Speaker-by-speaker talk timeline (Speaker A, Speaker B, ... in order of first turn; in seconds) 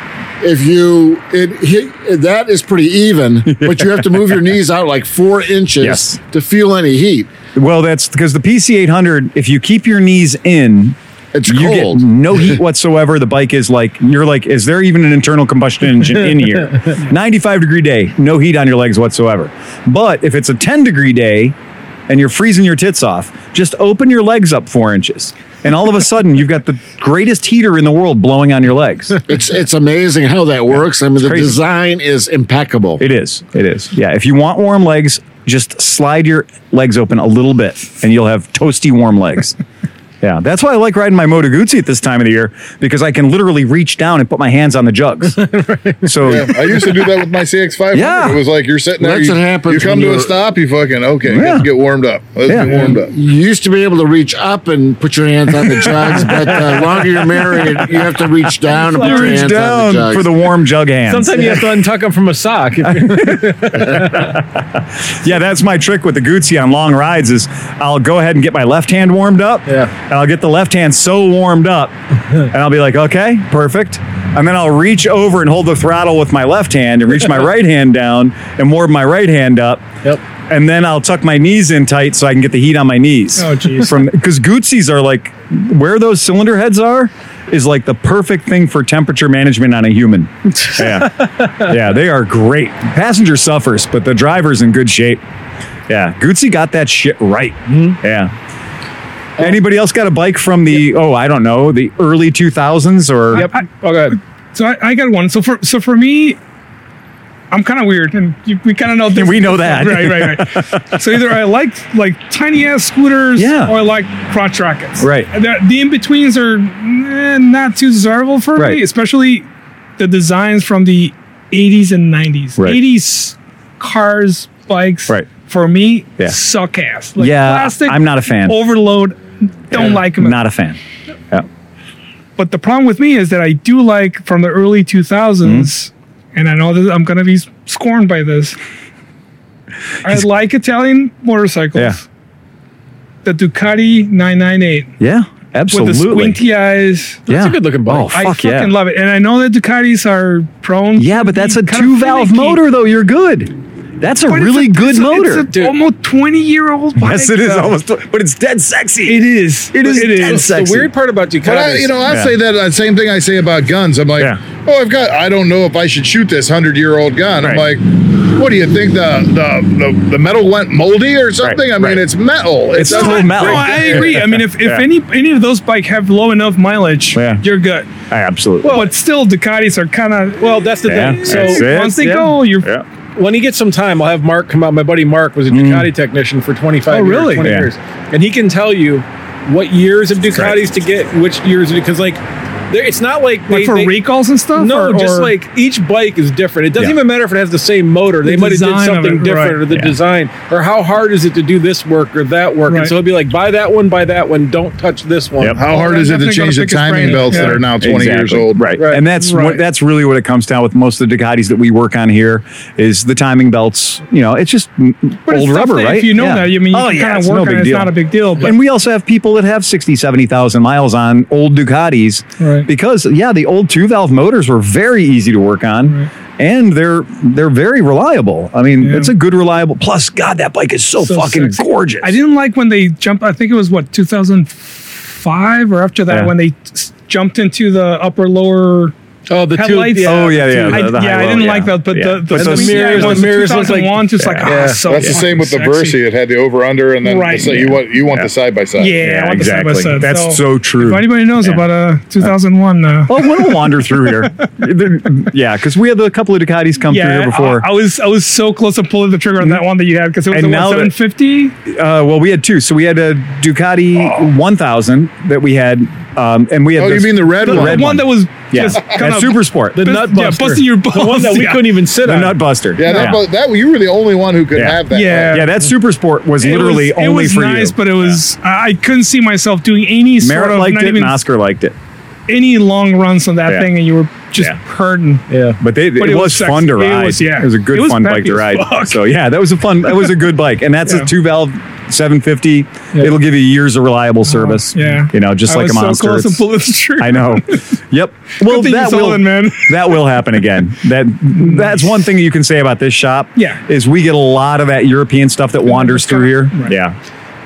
Speaker A: 0.4-7.3, 11.3-12.6, 29.3-33.0, 49.0-50.3, 52.7-60.4
Speaker B: 3.5-3.9, 5.8-6.2, 7.5-21.6, 22.1-29.2, 31.2-31.6, 33.0-39.6, 40.2-45.4, 46.0-46.8, 47.9-48.4, 51.3-51.7, 52.5-52.9, 58.9-61.6, 63.0-79.9, 80.5-95.2, 95.9-98.3, 99.4-103.5, 109.1-111.0, 113.4-113.7, 115.0-115.3, 118.6-118.8, 127.2-128.6, 129.7-130.8, 135.4-135.7, 145.0-146.4, 147.3-148.7, 151.0-155.5, 157.0-160.9, 162.1-162.3, 171.4-172.0, 172.7-174.8, 177.1-177.4, 178.1-178.8, 180.9-182.8, 185.5-185.9, 187.4-187.7, 207.7-232.2, 240.0-243.3, 244.2-244.5, 249.0-251.6, 253.1-257.6, 260.3-260.9, 261.7-269.8, 272.1-273.2, 274.6-278.2, 280.2-281.8, 285.6-296.5, 297.0-306.9
Speaker C: 45.4-46.4, 58.8-59.4, 61.1-64.4, 69.7-69.9, 97.7-98.0, 103.3-104.2, 147.3-148.2, 155.5-155.8, 160.1-162.0, 178.6-178.9, 180.4-182.3, 183.2-194.0, 194.6-205.6, 207.3-207.6, 208.8-209.0, 239.3-240.9, 242.3-244.8, 269.7-272.4, 285.3-285.6
Speaker D: 46.2-53.1, 161.4-174.1, 205.6-208.8, 244.9-248.9, 266.8-268.0, 272.8-275.4
Speaker E: 83.4-84.0, 103.3-103.6, 104.5-106.4, 107.5-119.5, 120.0-130.4, 132.4-138.6, 140.0-142.0, 143.2-144.9, 145.7-147.3, 148.1-152.6, 154.3-157.8, 159.1-160.4, 172.8-177.9, 178.7-182.7, 186.9-187.5, 193.5-195.3, 198.2-199.7, 205.6-207.7, 209.0-209.6, 215.3-218.6, 222.4-222.7, 228.8-229.1, 231.0-238.9, 239.6-246.0, 247.0-247.8, 248.8-254.3, 256.9-261.6, 267.4-271.8, 272.9-273.2, 274.9-275.5, 276.4-281.2, 282.3-285.3, 286.0-289.1, 294.2-297.7, 298.4-300.0, 301.4-301.8, 305.7-306.8